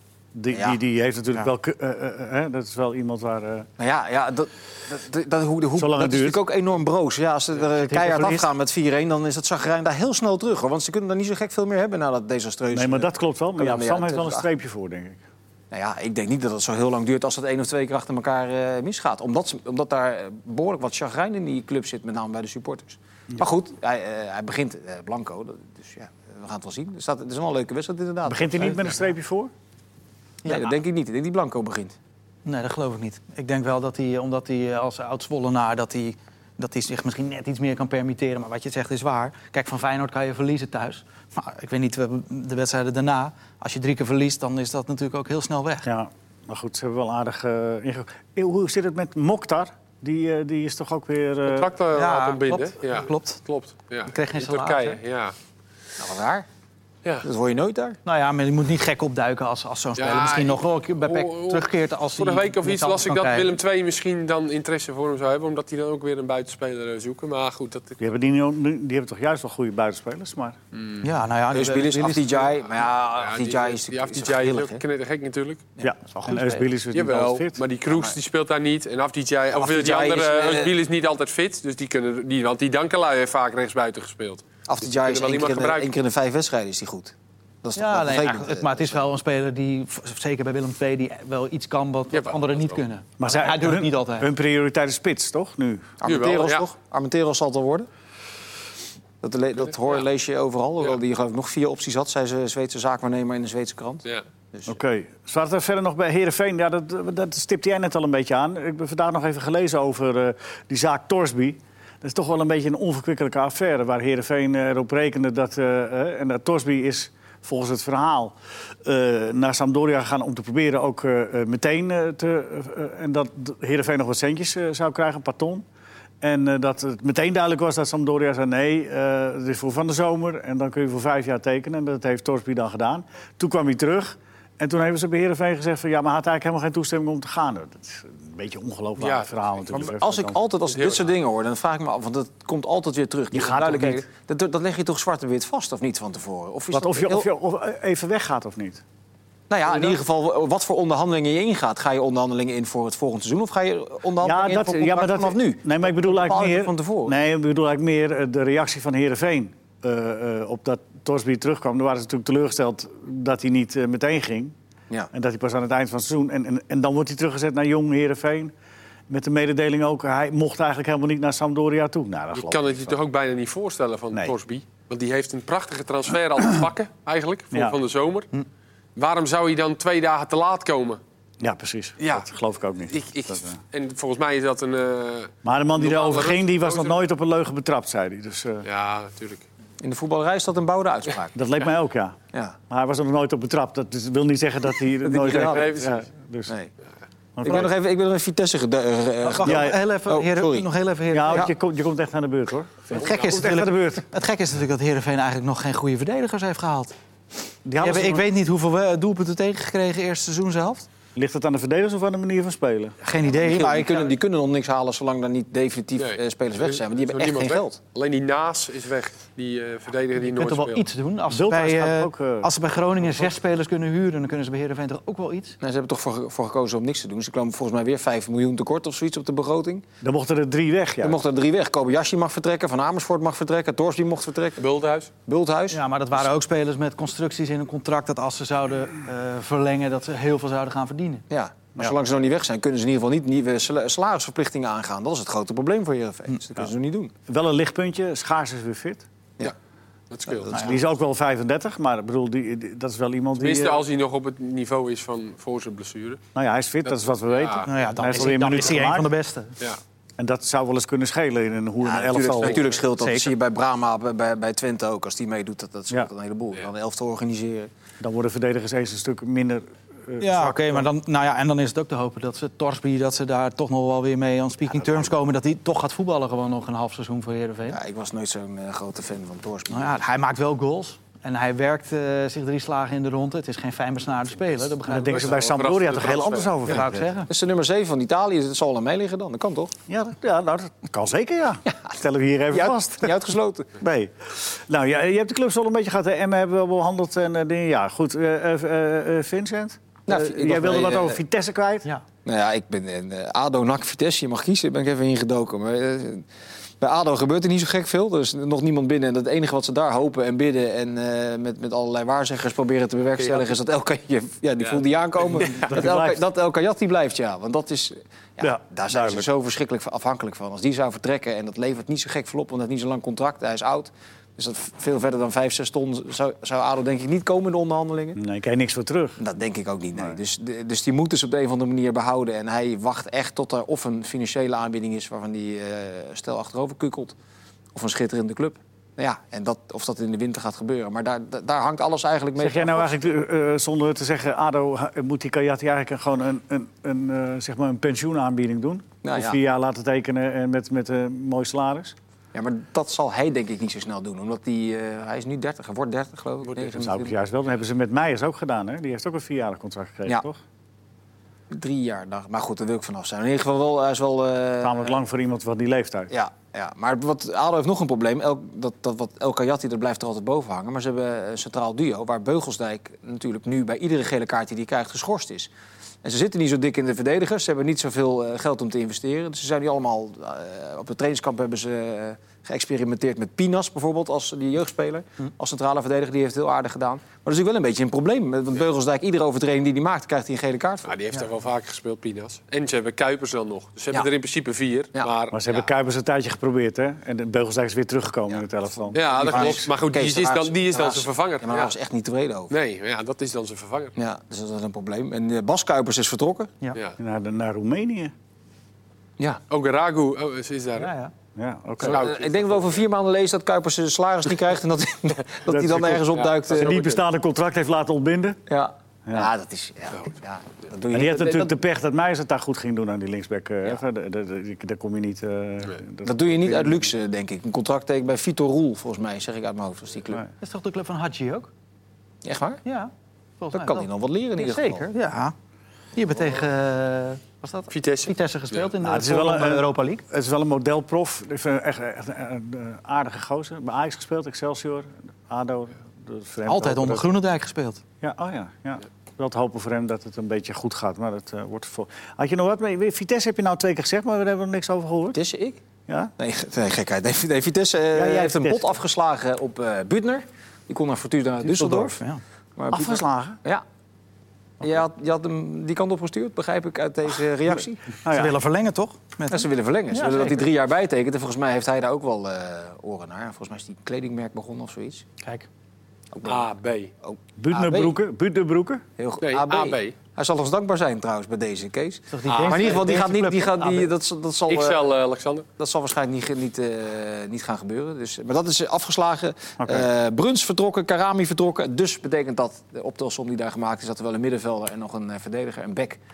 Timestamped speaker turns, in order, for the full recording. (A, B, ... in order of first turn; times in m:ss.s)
0:00.3-0:03.7 A
0:00.5-0:00.8 B
0:03.8-0:14.5 B
0:05.8-0:06.4 A
0:07.7-0:08.5 C
0:12.7-0:15.2 A
0:15.7-0:29.0 B
0:28.2-0:29.5 A
0:30.4-0:30.7 C
0:30.4-0:32.0 B
0:32.4-0:45.9 C
0:45.8-0:51.7 A
0:51.4-0:55.3 D
0:51.9-0:53.4 C
0:54.1-0:55.0 C
0:56.0-0:56.4 B
0:57.2-0:58.0 B
0:58.0-1:03.6 C
1:00.0-1:08.0 D
1:08.0-1:10.6 A
1:10.7-1:11.0 D
1:11.0-1:12.5 C
1:11.5-1:14.8 B
1:12.8-1:15.6 D
1:15.8-1:17.6 A
1:16.2-1:16.7 C
1:16.9-1:25.9 D
1:17.9-1:18.2 B
1:19.5-1:20.7 B
1:24.7-1:29.0 B
1:27.8-1:34.3 C
1:32.1-1:32.8 D
1:33.2-1:35.9 A
1:36.0-1:37.9 B
1:36.0-1:36.7 D
1:39.2-1:44.7 B
1:44.6-2:05.6 A
2:06.2-2:20.4 A
2:19.0-2:19.8 D
2:19.7-2:27.3 B
2:20.7-2:21.1 D
2:23.3-2:24.0 A
2:26.7-2:28.8 A
2:29.5-2:37.1 B
2:29.6-2:30.0 D
2:34.2-2:44.5 A
2:45.1-2:48.5 A
2:49.1-2:53.0 A
2:52.3-2:58.3 D
2:59.0-3:01.0 D
3:01.4-3:03.6 A
3:02.0-3:02.2 D
3:02.9-3:07.0 D
3:05.4-3:08.7 A
3:08.6-3:09.4 D
3:09.8-3:11.4 B
3:11.3-3:12.2 A
3:12.7-3:16.5 A
3:15.0-3:15.7 B
3:15.3-3:16.0 D
3:17.4-3:17.7 A
3:17.4-3:20.7 B
3:19.2-3:21.5 C
3:19.4-3:19.8 A
3:21.1-3:24.0 A
3:22.9-3:23.4 D
3:22.9-3:26.9 C
3:27.6-3:28.3 A
3:27.8-3:30.9 C
3:31.2-3:33.0 A
3:33.0-3:34.1 C
3:33.2-3:37.8 B
3:36.0-3:40.9 D
3:40.2-3:45.6 C
3:41.3-3:43.3 A
3:45.6-3:49.8 B
3:50.0-3:51.2 A
3:51.0-3:54.6 B
3:54.6-3:55.1 D
3:55.2-3:55.8 B
3:55.7-4:01.2 C
4:01.3-4:07.1 B
4:07.3-4:09.0 A
4:10.1-4:10.8 D
4:10.5-4:13.8 A
4:13.4-4:16.2 D
4:16.3-4:19.1 A
4:17.3-4:17.7 D
4:17.6-4:19.5 C
4:20.2-4:22.6 A
4:21.8-4:27.7 B
4:23.0-4:23.3 C
4:28.0-4:30.9 A
4:30.2-4:37.8 C
4:34.6-4:35.1 B
4:37.7-4:40.0 B
4:39.7-4:45.4 C
4:44.9-4:47.1 A
4:45.1-4:46.5 D
4:46.6-4:47.3 C
4:47.3-4:49.7 B
4:49.9-4:53.1 A
4:51.7-4:52.0 B
4:52.5-4:53.7 B
4:53.8-5:01.9 A
5:00.1-5:01.2 B
5:02.2-5:06.3 B
5:06.8-5:28.2 B
5:13.2-5:13.6 D
5:14.6-5:15.7 D
5:15.6-5:16.2 A
5:18.4-5:19.3 A
5:28.2-5:29.2 A
5:29.2-5:37.1 B
5:37.7-5:42.9 B
5:42.4-5:51.9 A
5:49.0-5:49.4 B
5:52.3-5:57.1 B
5:56.7-6:00.4 A
6:01.5-6:05.0 B
6:04.6-6:06.1 A
6:06.1-6:15.5 B
6:16.0-6:30.9 B
6:30.8-6:35.3 D
6:34.9-6:35.7 B
6:35.3-6:39.5 A
6:38.9-6:41.7 D
6:38.9-6:42.5 B
6:39.3-6:39.6 C
6:42.5-6:43.9 D
6:44.0-6:46.5 B
6:47.0-6:48.1 A
6:49.5-6:50.9 D
6:50.8-6:51.1 C
6:51.4-6:52.0 A
6:51.8-6:52.8 D
6:51.9-6:56.8 B
6:55.5-6:58.4 A
6:56.1-6:57.0 D
6:58.5-7:01.6 B
7:00.9-7:06.9 A
7:06.0-7:10.2 B
7:10.4-7:11.5 C
7:12.2-7:12.6 B
7:12.6-7:15.3 C
7:13.5-7:14.9 B
7:16.0-7:20.0 C
7:17.7-7:18.7 D
7:18.8-7:27.1 A
7:26.4-7:27.8 C
7:28.0-7:35.2 A
7:35.1-7:35.6 B
7:36.2-7:42.0 B
7:37.9-7:38.8 A
7:41.4-7:42.2 C
7:42.6-7:43.6 B
7:42.7-7:43.4 A
7:44.6-7:47.8 B
7:48.0-7:48.3 A
7:48.0-7:50.4 C
7:49.3-7:55.0 B
7:55.2-7:55.5 C
7:56.1-7:56.5 B
7:56.2-7:56.9 D
7:57.0-7:57.9 B
7:57.4-7:58.8 A
7:59.0-8:04.8 B
7:59.2-7:59.9 D
8:02.1-8:03.9 C
8:02.2-8:02.8 D
8:04.5-8:05.4 D
8:05.6-8:16.0 B
8:09.6-8:09.9 A